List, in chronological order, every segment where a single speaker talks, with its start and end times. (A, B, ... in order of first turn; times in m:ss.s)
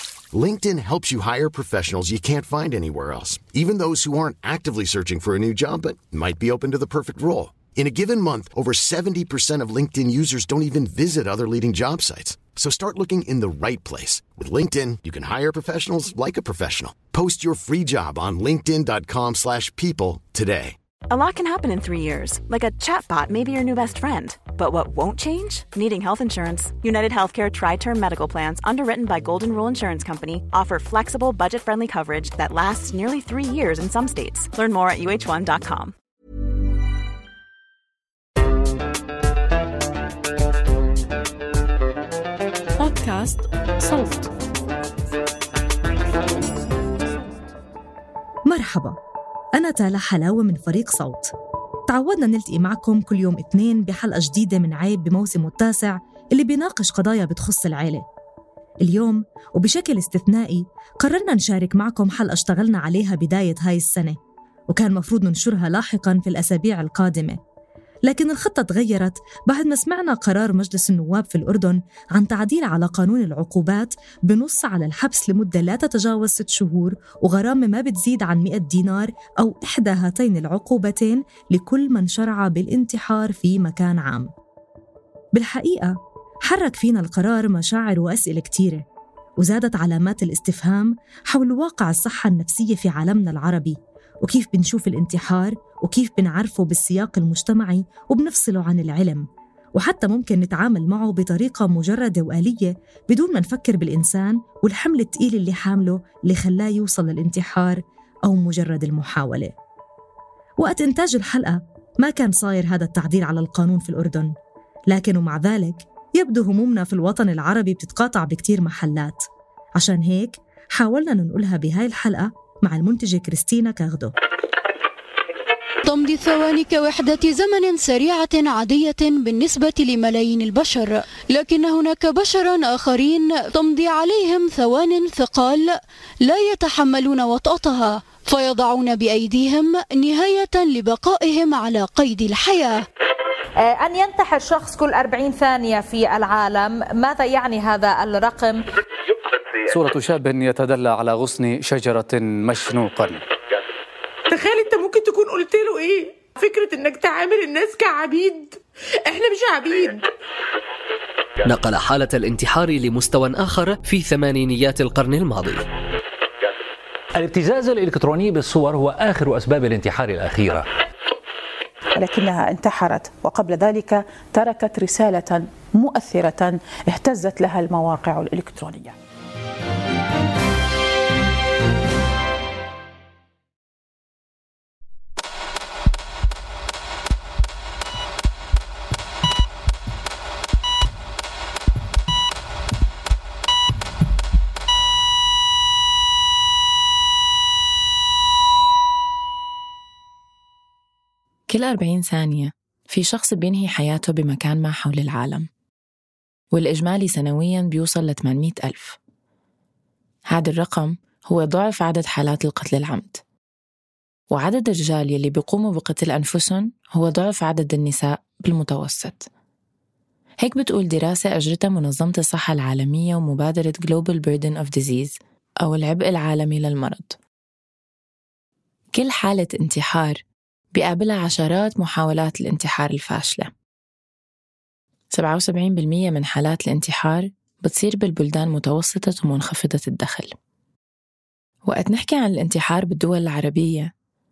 0:00.3-0:20.8 A
0:21.1-0:36.0 B
0:48.5-0:49.0 C
0:49.5-0:51.3 C
0:51.9-0:58.0 C
0:58.8-1:04.2 C
1:04.7-1:07.4 C
1:08.0-1:24.3 C
1:25.3-1:28.8 C
1:29.4-1:49.5 C
1:50.6-1:54.3 C
1:54.9-2:04.1 C
2:05.8-2:22.8 D
2:23.6-2:28.6 E
2:29.7-2:33.2 F
2:34.3-2:40.0 G
2:41.4-2:45.6 H
2:47.2-2:50.7 I
2:52.0-2:59.0 J
3:21.5-3:25.5 K
3:26.5-3:29.0 K
3:30.3-3:33.2 K
3:34.3-3:39.3 K
3:40.4-3:47.2 K
3:48.9-3:50.2 K
3:50.7-3:53.5 K
3:55.1-4:00.4 K
4:01.7-4:03.9 K